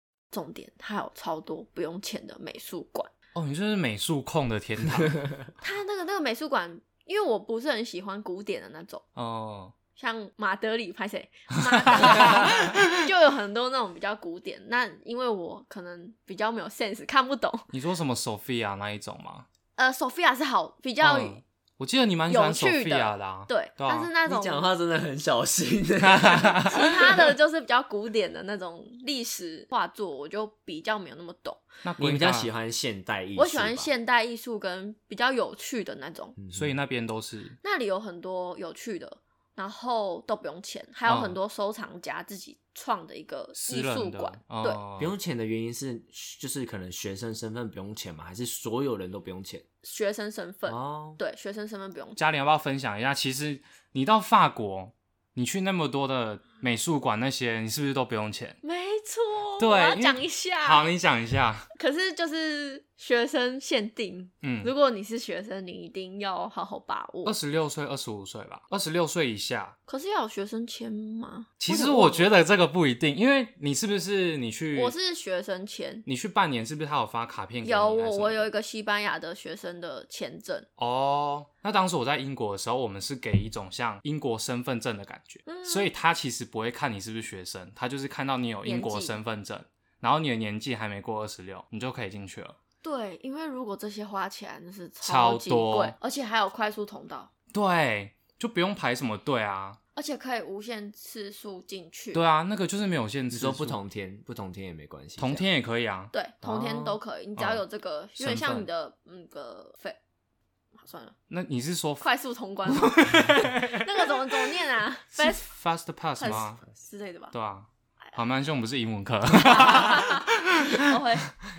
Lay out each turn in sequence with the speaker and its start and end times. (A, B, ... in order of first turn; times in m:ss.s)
0:00.3-0:03.1 A
0:03.4-0:05.3 B
0:05.6-0:09.0 A
0:09.2-0:09.7 B
0:10.0-0:17.7 A
0:11.9-0:13.0 B
0:17.7-0:19.5 B
0:19.8-0:21.4 A
0:21.0-0:24.1 B
0:22.3-0:24.7 A
0:24.2-0:27.0 C
0:26.0-0:26.8 B
0:26.7-0:31.6 A
0:31.8-0:32.5 B
0:32.0-0:33.9 C
0:33.4-0:36.4 A
0:36.4-0:36.7 C
0:36.5-0:37.6 B
0:37.6-0:44.8 A
0:41.0-0:41.4 B
0:43.5-0:45.1 B
0:45.0-0:49.6 C
0:49.8-0:52.2 A
0:50.7-0:51.2 C
0:52.2-0:58.6 B
0:58.6-1:00.9 A
0:59.6-1:01.7 B
1:01.7-1:07.4 A
1:04.4-1:04.7 B
1:07.2-1:09.8 B
1:09.9-1:12.3 A
1:11.6-1:15.0 B
1:14.7-1:16.0 A
1:16.0-1:18.5 B
1:17.6-1:20.7 A
1:20.8-1:32.6 B
1:25.5-1:25.9 A
1:28.6-1:29.2 A
1:32.8-1:37.3 A
1:35.0-1:36.0 B
1:37.5-1:39.8 B
1:40.0-1:42.2 A
1:42.1-1:43.8 B
1:43.3-1:45.5 C
1:45.2-1:46.1 B
1:46.1-1:50.0 A
1:46.4-1:47.0 C
1:47.4-1:47.6 B
1:48.2-1:48.7 B
1:50.8-1:51.1 A
1:51.3-1:52.1 B
1:52.0-1:55.5 A
1:52.7-1:54.5 B
1:55.1-1:56.6 B
1:56.2-1:57.3 A
1:57.3-2:01.0 B
1:59.4-2:01.3 A